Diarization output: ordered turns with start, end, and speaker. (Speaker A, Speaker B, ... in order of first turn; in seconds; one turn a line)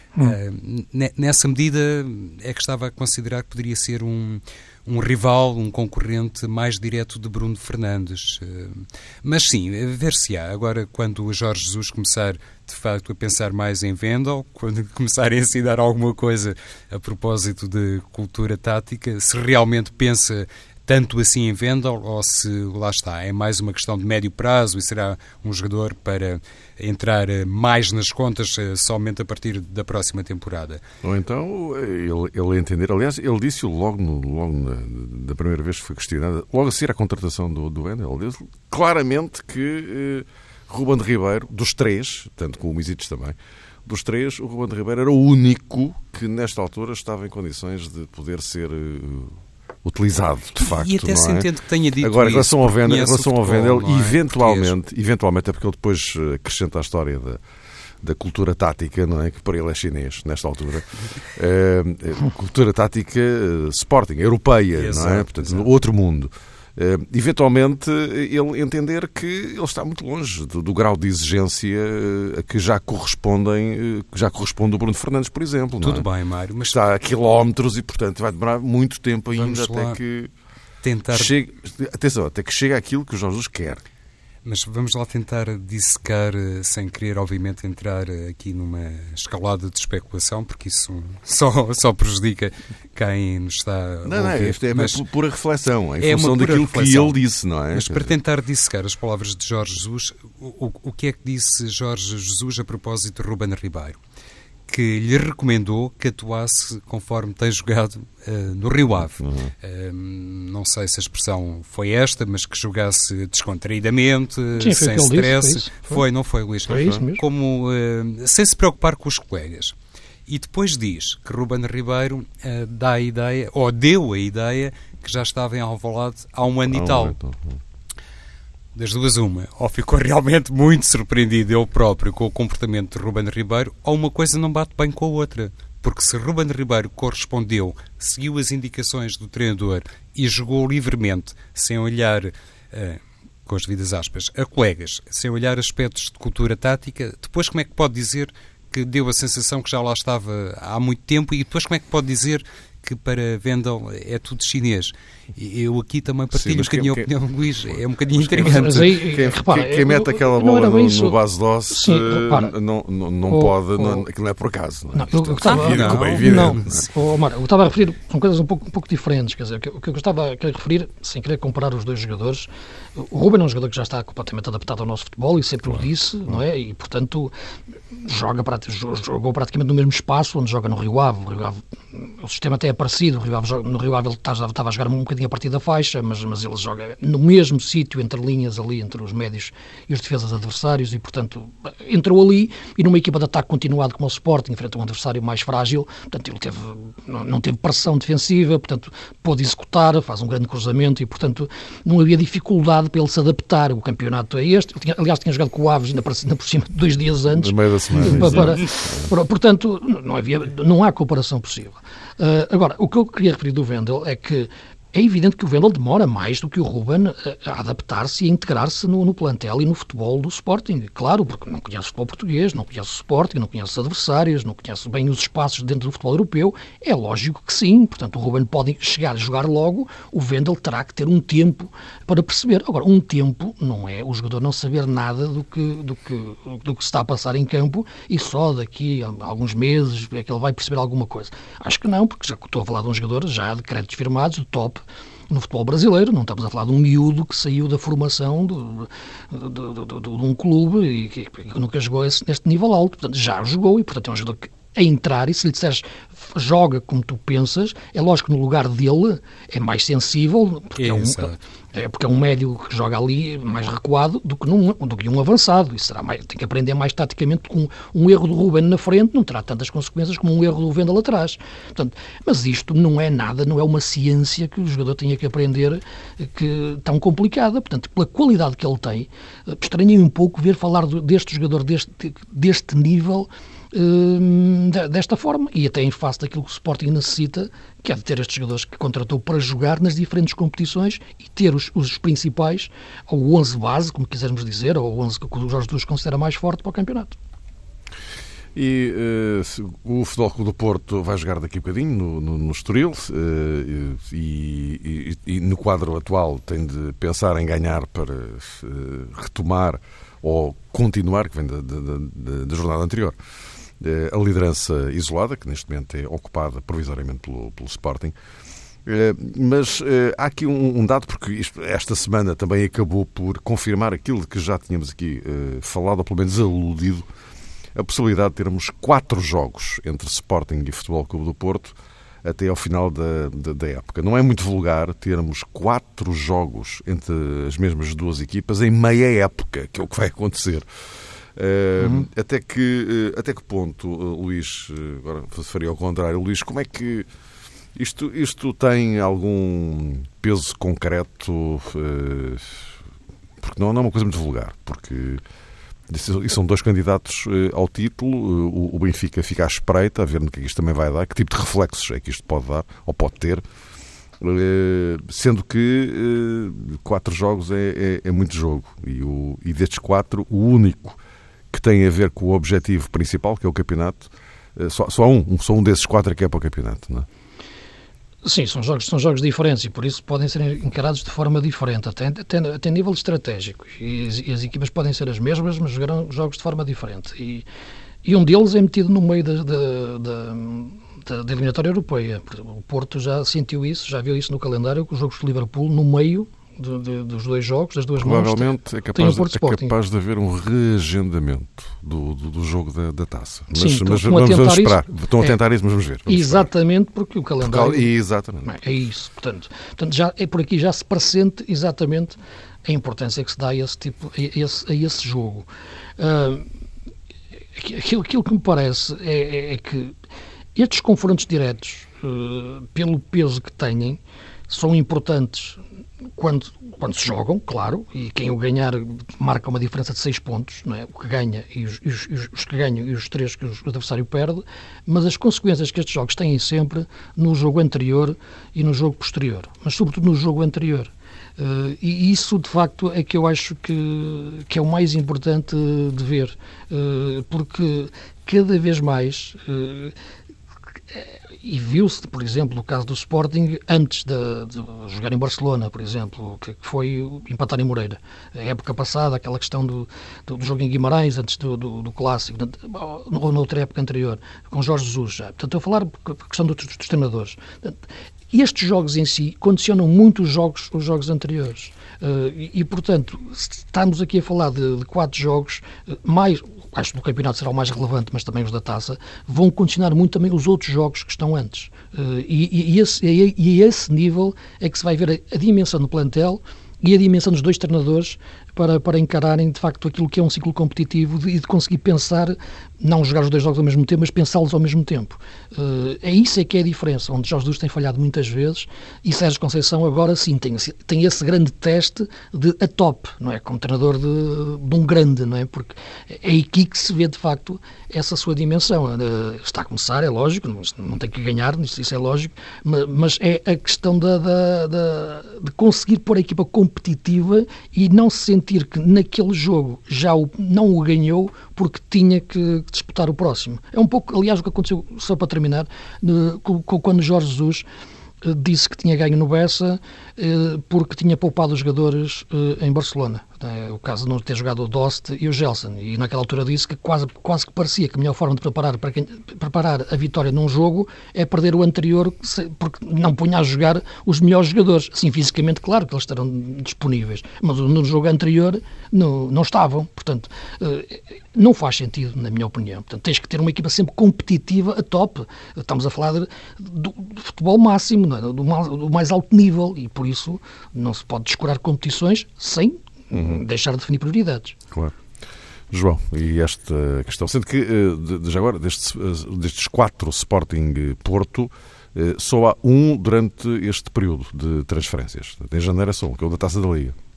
Speaker A: 0.2-30.8
Speaker B: 31.0-51.5
Speaker A: 50.6-54.7
Speaker B: 52.0-57.4
Speaker B: 58.0-76.1
Speaker A: 64.7-65.7
Speaker A: 75.8-76.8
Speaker B: 76.7-80.3
Speaker A: 79.3-80.0
Speaker A: 80.8-81.3
Speaker B: 81.1-83.8
Speaker A: 84.5-95.0
Speaker B: 94.0-98.1
Speaker A: 96.0-97.1
Speaker A: 97.7-104.0
Speaker A: 104.7-119.8
Speaker B: 109.2-109.5
Speaker C: 114.6-116.0
Speaker C: 116.7-117.2
Speaker B: 116.7-117.0
Speaker A: 120.3-127.2
Speaker B: 126.7-127.6
Speaker A: 128.8-159.0
Speaker B: 156.3-157.1
Speaker B: 157.7-166.8
Speaker C: 158.4-161.2
Speaker C: 161.7-162.5
Speaker C: 163.3-164.0
Speaker C: 164.9-177.3
Speaker A: 165.4-166.6
Speaker C: 177.9-297.1
Speaker B: 207.3-209.1
Speaker A: 260.8-261.4
Speaker B: 298.6-313.2
Speaker B: 313.8-318.1
Speaker B: 318.9-327.1
Speaker B: 327.8-340.7
Speaker B: 341.4-347.1
Speaker B: 347.8-352.7
Speaker B: 353.4-355.2
Speaker B: 355.9-363.4
Speaker B: 364.2-371.0
Speaker B: 371.5-377.1
Speaker C: 378.2-387.4
Speaker C: 388.0-399.8
Speaker B: 398.0-406.5
Speaker C: 403.5-405.4
Speaker C: 406.1-407.9
Speaker B: 407.4-408.5
Speaker C: 408.4-415.5
Speaker C: 416.0-416.5
Speaker C: 417.6-419.9
Speaker C: 420.6-425.6
Speaker C: 426.2-449.9
Speaker C: 450.9-467.8
Speaker C: 468.3-527.7
Speaker C: 528.2-564.6
Speaker B: 563.1-563.4
Speaker B: 565.7-577.0